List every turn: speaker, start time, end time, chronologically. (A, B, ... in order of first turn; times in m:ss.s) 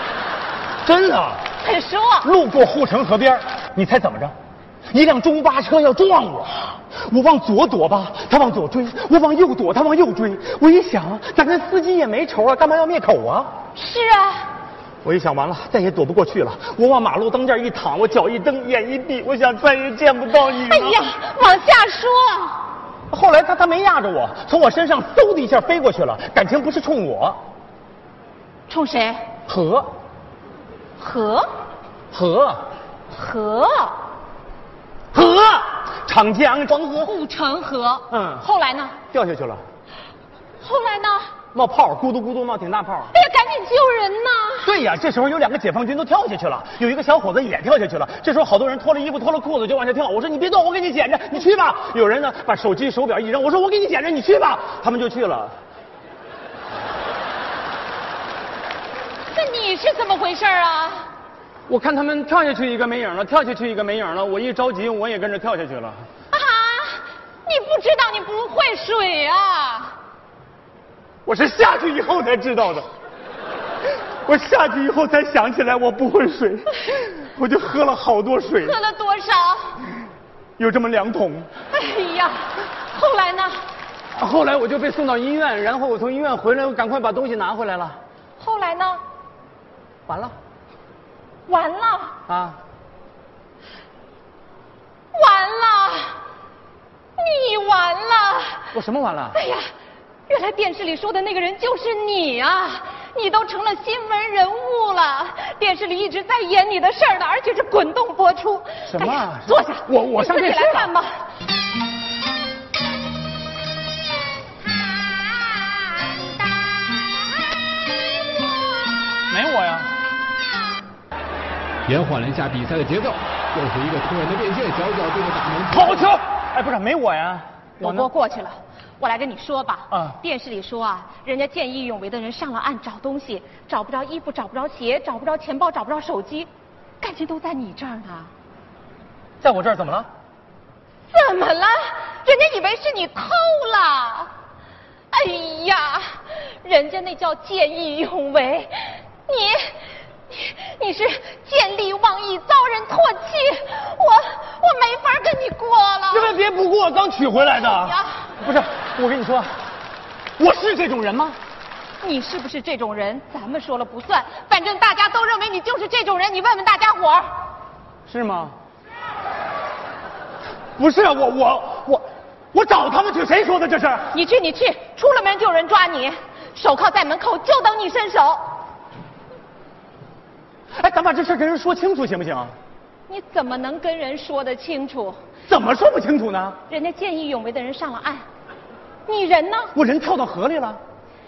0:00.8-0:01.4 A
0:01.6-0:02.3 B
0:02.2-0:04.4 A
0:04.9-0:13.5 A
0:13.8-0:14.5 B
0:15.0-0:21.1 A
0:20.6-0:22.6 B
0:23.1-0:27.4 A
0:28.7-0:29.3 B
0:29.5-0:29.9 A
0:31.0-0:31.5 B
0:32.1-0:32.7 A
0:33.1-0:34.0 B
0:35.1-0:37.1 A
0:37.0-0:39.0 B
0:38.1-0:38.4 A
0:39.1-0:39.6 A
0:40.6-0:41.3 B
0:41.5-0:43.1 A
0:43.1-0:44.8 B
0:44.6-0:55.6 A
0:59.3-1:01.1 B
1:01.7-1:06.1 A
1:06.3-1:10.0 B
1:11.2-1:12.9 A
1:14.2-1:18.8 A
1:18.6-1:19.9 B
1:20.6-1:21.5 A
1:21.7-1:23.7 B
1:24.1-1:28.0 A
1:28.4-1:29.0 B
1:30.1-1:30.3 A
1:31.5-1:32.2 B
1:32.3-1:32.6 A
1:35.1-1:36.2 B
1:37.2-1:38.7 B
1:38.7-1:39.4 A
1:39.3-1:39.7 B
1:40.3-1:51.1 B
1:48.9-1:50.9 A
1:59.3-1:59.9 A
2:01.9-2:05.8 C
2:05.7-2:08.1 A
2:07.8-2:16.5 B
2:09.9-2:10.2 A
2:17.0-2:18.3 B
2:19.4-2:20.1 A
2:21.1-2:24.3 B
2:25.1-2:36.4 B
2:36.1-2:39.5 A
2:37.5-2:38.3 B
2:40.4-2:41.4 A
2:42.0-2:47.3 B
2:48.1-2:48.6 A
2:50.8-2:54.1 A
2:54.1-2:58.5 B
3:00.7-3:02.5 A
3:03.1-3:05.2 B
3:05.5-3:06.6 A
3:06.7-3:08.2 B
3:09.1-3:09.7 B
3:09.8-3:10.8 A